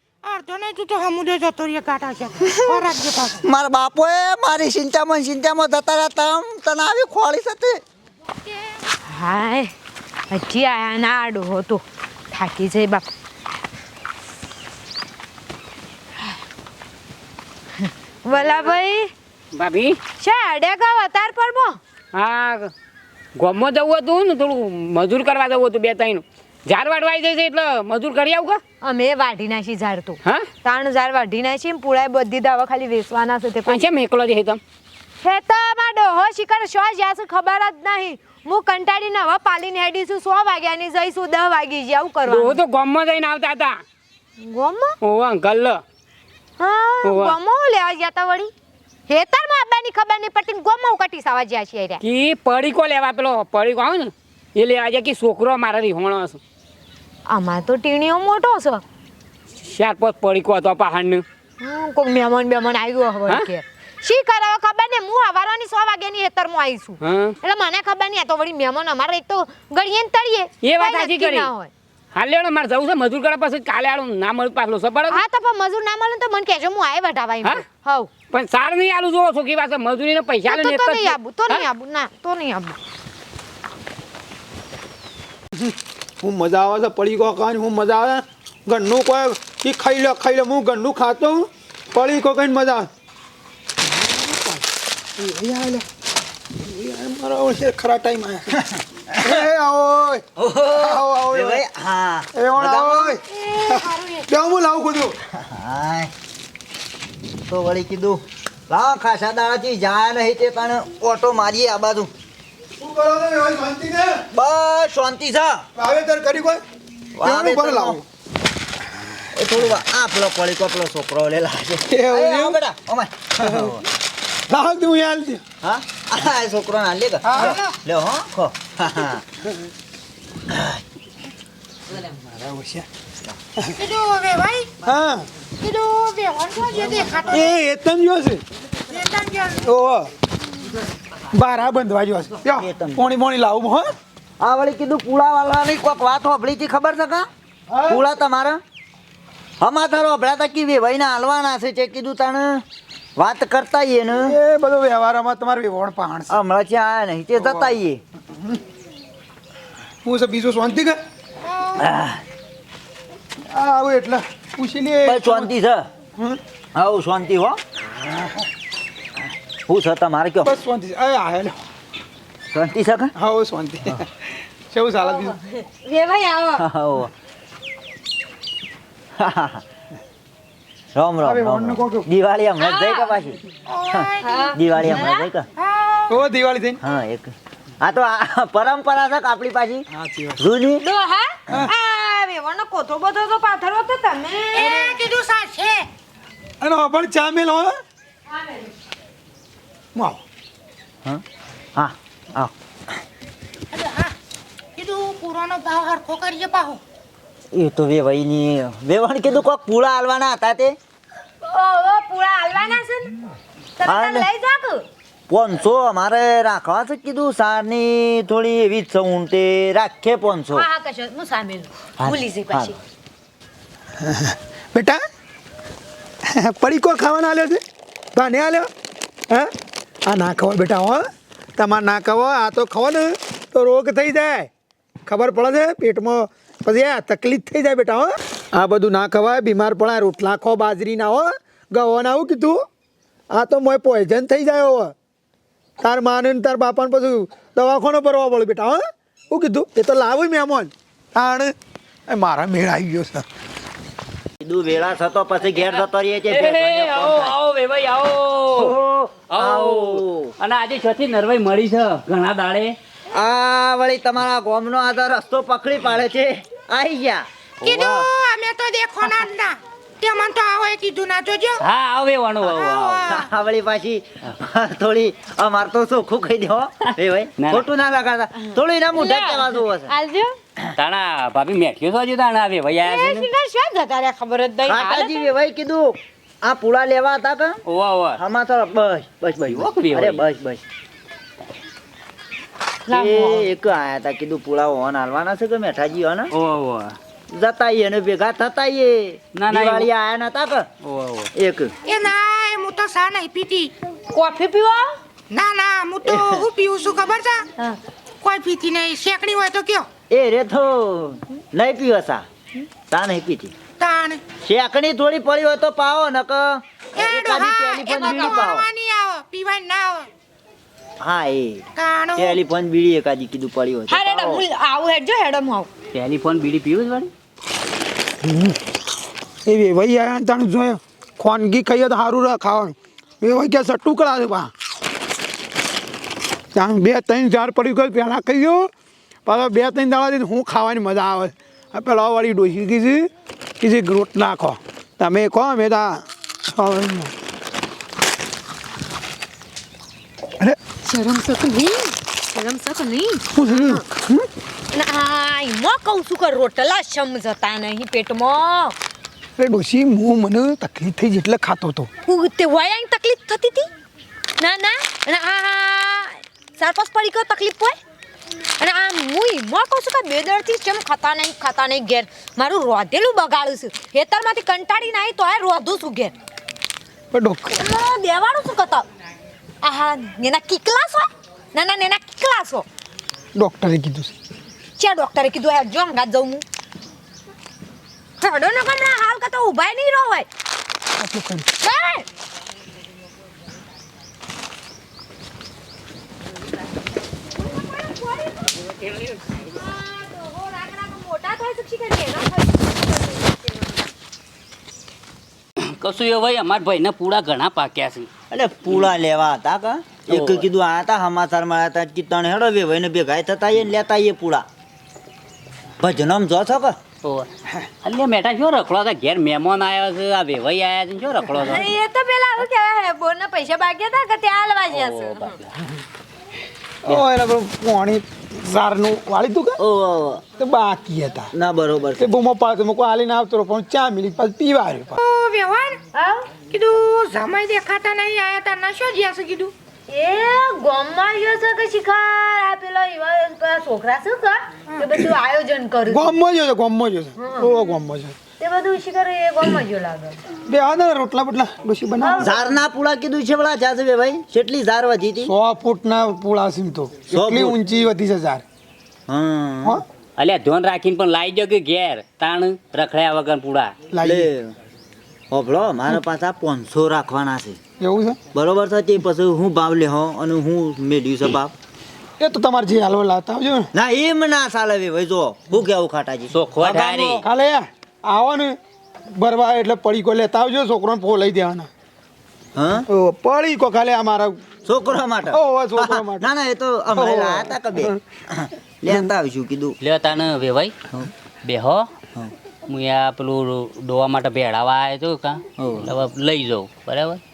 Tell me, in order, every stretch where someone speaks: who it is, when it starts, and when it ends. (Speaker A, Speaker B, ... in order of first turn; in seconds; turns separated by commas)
Speaker A: 0.2-3.4, Speaker B: 2.5-2.7, Speaker B: 3.4-7.8, Speaker A: 8.4-8.8, Speaker C: 9.0-9.7, Speaker C: 10.3-13.1, Speaker C: 17.8-19.1, Speaker D: 19.5-20.0, Speaker C: 20.2-21.8, Speaker D: 22.1-22.7, Speaker D: 23.4-28.6, Speaker C: 28.8-33.8, Speaker D: 33.7-34.6, Speaker C: 35.2-42.6, Speaker D: 42.2-43.8, Speaker C: 44.4-45.0, Speaker D: 45.0-45.8, Speaker C: 46.6-48.5, Speaker D: 47.0-47.4, Speaker C: 49.1-52.0, Speaker D: 52.0-56.4, Speaker C: 57.3-58.8, Speaker D: 59.6-61.2, Speaker C: 61.6-71.7, Speaker D: 67.0-67.3, Speaker D: 70.6-71.5, Speaker D: 72.1-75.2, Speaker C: 75.1-78.1, Speaker D: 78.3-81.7, Speaker C: 80.5-82.8, Speaker E: 86.2-92.9, Speaker E: 95.2-95.8, Speaker E: 96.6-98.5, Speaker B: 98.6-99.4, Speaker E: 99.2-101.6, Speaker B: 100.4-103.2, Speaker E: 102.3-103.7, Speaker A: 103.2-104.3, Speaker E: 104.3-105.1, Speaker B: 105.4-106.1, Speaker B: 107.5-112.1, Speaker E: 112.8-114.2, Speaker B: 114.3-115.6, Speaker E: 115.8-116.6, Speaker B: 117.2-118.0, Speaker E: 117.2-118.0, Speaker B: 119.3-123.8, Speaker E: 121.9-122.6, Speaker E: 124.5-125.4, Speaker B: 125.6-129.2, Speaker A: 127.5-127.8, Speaker B: 130.5-130.8, Speaker E: 132.4-132.8, Speaker A: 133.8-134.7, Speaker E: 134.8-135.2, Speaker A: 135.6-137.5, Speaker E: 137.3-138.4, Speaker A: 138.9-139.7, Speaker E: 139.7-140.1, Speaker E: 141.3-143.9, Speaker B: 142.6-143.1, Speaker B: 144.4-147.3, Speaker B: 147.8-148.6, Speaker B: 149.6-152.6, Speaker B: 153.2-154.3, Speaker E: 154.2-156.3, Speaker B: 156.3-158.0, Speaker E: 160.0-161.0, Speaker A: 161.4-161.8, Speaker B: 161.8-162.2, Speaker E: 163.5-165.5, Speaker B: 165.0-165.9, Speaker B: 166.7-167.6, Speaker B: 169.7-170.5, Speaker E: 170.4-171.6, Speaker B: 172.5-173.1, Speaker E: 173.2-174.0, Speaker E: 174.7-175.3, Speaker C: 175.0-176.6, Speaker B: 176.6-177.1, Speaker B: 179.2-179.6, Speaker B: 180.9-185.5, Speaker E: 181.2-182.1, Speaker C: 182.6-183.1, Speaker A: 183.7-184.5, Speaker C: 184.2-185.3, Speaker A: 185.6-186.2, Speaker E: 186.1-186.8, Speaker B: 186.8-189.8, Speaker B: 190.3-190.8, Speaker C: 190.8-195.0, Speaker A: 194.5-195.9, Speaker E: 196.6-197.7, Speaker C: 198.3-198.7, Speaker B: 201.8-202.9, Speaker A: 203.7-204.1, Speaker A: 204.8-206.8, Speaker B: 207.5-210.8, Speaker C: 211.5-213.2, Speaker C: 213.8-214.8, Speaker B: 213.8-214.3, Speaker B: 215.3-220.7, Speaker C: 220.5-222.8, Speaker B: 222.0-222.7, Speaker E: 224.0-225.0, Speaker E: 226.4-227.6, Speaker E: 228.2-228.7, Speaker E: 230.1-231.0, Speaker E: 231.6-234.5, Speaker E: 235.1-242.6, Speaker E: 243.3-244.9, Speaker E: 245.8-248.8, Speaker E: 249.3-251.5, Speaker E: 252.1-253.2, Speaker B: 254.4-257.3, Speaker F: 255.7-258.7, Speaker B: 258.5-260.3, Speaker F: 259.3-262.8, Speaker B: 263.1-268.1, Speaker A: 267.6-271.6, Speaker F: 271.6-273.1, Speaker A: 272.5-273.2, Speaker B: 273.1-279.9, Speaker F: 277.4-277.6, Speaker C: 278.9-280.3, Speaker F: 280.8-283.3, Speaker C: 282.8-285.3, Speaker B: 284.6-287.6, Speaker F: 287.6-288.2, Speaker B: 288.2-290.6, Speaker F: 289.4-290.2, Speaker B: 292.9-296.3, Speaker C: 292.9-293.5, Speaker F: 296.3-296.9, Speaker B: 297.3-300.7, Speaker F: 299.4-299.9, Speaker F: 300.8-301.3, Speaker B: 301.3-301.7, Speaker A: 301.9-303.7, Speaker C: 304.1-304.9, Speaker A: 305.3-307.5, Speaker B: 306.0-306.5, Speaker A: 308.2-309.9, Speaker B: 310.1-312.2, Speaker B: 312.9-313.5, Speaker A: 313.8-314.2, Speaker B: 314.4-318.7, Speaker A: 316.9-320.1, Speaker C: 317.9-318.5, Speaker B: 321.0-321.6, Speaker A: 321.8-322.3, Speaker B: 322.1-324.4, Speaker C: 323.9-325.7, Speaker F: 325.9-327.1, Speaker E: 329.4-334.5, Speaker E: 336.5-338.7, Speaker E: 339.2-343.1, Speaker E: 343.6-347.1, Speaker C: 350.8-353.8, Speaker E: 353.5-354.2, Speaker C: 354.7-358.8, Speaker E: 359.4-361.9, Speaker C: 362.1-363.7, Speaker C: 364.4-367.8, Speaker C: 368.6-376.1, Speaker E: 377.1-377.6, Speaker C: 377.6-378.8, Speaker C: 379.6-382.6, Speaker E: 383.4-384.1, Speaker C: 384.8-386.4, Speaker C: 388.2-390.3, Speaker E: 391.0-391.4, Speaker C: 391.6-392.0, Speaker C: 397.3-398.5, Speaker F: 398.8-399.2, Speaker C: 399.4-403.7, Speaker F: 405.7-408.1, Speaker B: 408.3-414.4, Speaker F: 410.1-410.4, Speaker B: 415.8-416.8, Speaker F: 417.0-417.3, Speaker F: 417.8-421.6, Speaker C: 421.4-425.4, Speaker F: 424.7-425.5, Speaker E: 426.8-429.6, Speaker B: 429.6-430.2, Speaker E: 430.4-431.3, Speaker B: 431.3-432.1, Speaker E: 432.0-435.0, Speaker A: 435.0-435.8, Speaker C: 435.9-436.3, Speaker A: 436.5-439.5, Speaker C: 439.9-446.1, Speaker E: 445.9-448.1, Speaker C: 447.2-447.5, Speaker C: 448.4-450.2, Speaker E: 450.5-452.2, Speaker C: 452.0-452.6, Speaker B: 452.2-455.3, Speaker E: 455.2-458.4, Speaker B: 457.1-457.6, Speaker B: 459.1-459.8, Speaker F: 460.2-463.7, Speaker E: 463.9-464.2, Speaker B: 464.0-464.5, Speaker B: 465.3-467.6, Speaker E: 467.8-468.2, Speaker B: 468.3-471.5, Speaker E: 472.2-473.7, Speaker B: 473.7-477.2, Speaker F: 476.3-477.2, Speaker E: 477.2-478.6, Speaker E: 479.1-481.7, Speaker B: 482.6-482.9, Speaker E: 482.9-484.4, Speaker B: 484.6-489.8, Speaker E: 485.3-486.2, Speaker E: 487.0-487.9, Speaker F: 489.8-490.7, Speaker F: 491.4-491.9, Speaker F: 492.7-497.2, Speaker B: 495.6-495.9